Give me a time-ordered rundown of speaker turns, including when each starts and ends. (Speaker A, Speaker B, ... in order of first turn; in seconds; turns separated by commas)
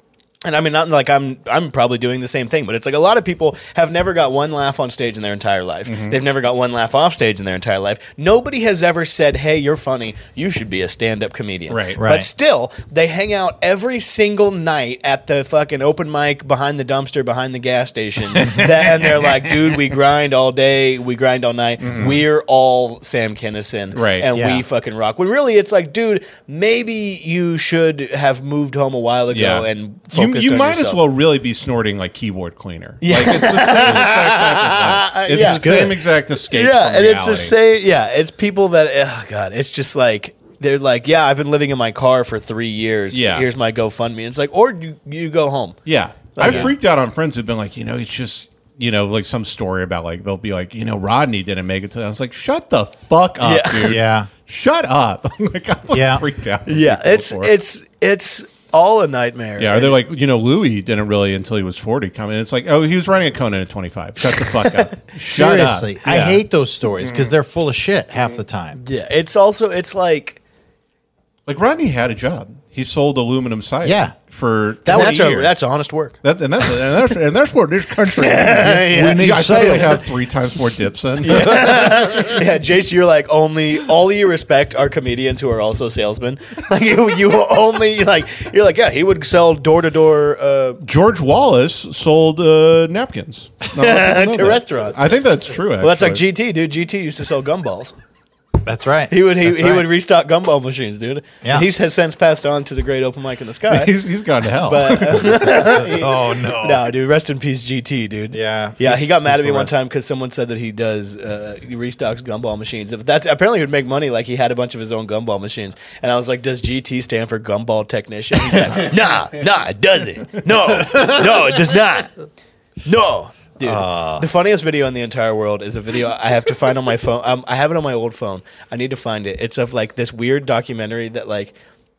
Speaker A: 0.5-31.0, Speaker B: 5.9-6.2, Speaker B: 11.7-12.0, Speaker C: 12.0-12.3, Speaker B: 18.3-19.8, Speaker B: 21.8-22.2, Speaker B: 23.9-24.3, Speaker C: 24.3-24.6, Speaker B: 29.3-37.5, Speaker A: 33.0-45.8, Speaker C: 35.4-36.0, Speaker B: 43.1-43.5, Speaker B: 45.9-57.5, Speaker A: 46.3-46.7, Speaker C: 46.4-46.7, Speaker A: 53.4-54.0, Speaker C: 53.8-54.3, Speaker C: 55.9-56.2, Speaker A: 56.6-60.0, Speaker B: 59.6-66.4, Speaker A: 64.6-64.9, Speaker C: 65.2-68.8, Speaker B: 67.0-67.3, Speaker A: 68.8-70.4, Speaker B: 71.5-75.5, Speaker C: 73.8-74.1, Speaker C: 74.8-75.2, Speaker A: 74.9-76.2, Speaker B: 76.2-81.8, Speaker A: 78.2-79.7, Speaker C: 78.8-80.0, Speaker A: 81.2-90.8, Speaker C: 81.6-82.4, Speaker B: 90.8-96.2, Speaker A: 93.7-95.1, Speaker A: 95.8-97.9, Speaker C: 98.6-99.9, Speaker A: 99.1-103.9, Speaker B: 103.7-105.7, Speaker A: 104.6-122.1, Speaker C: 105.5-106.9, Speaker C: 108.3-109.7, Speaker A: 122.8-131.5, Speaker C: 123.6-124.3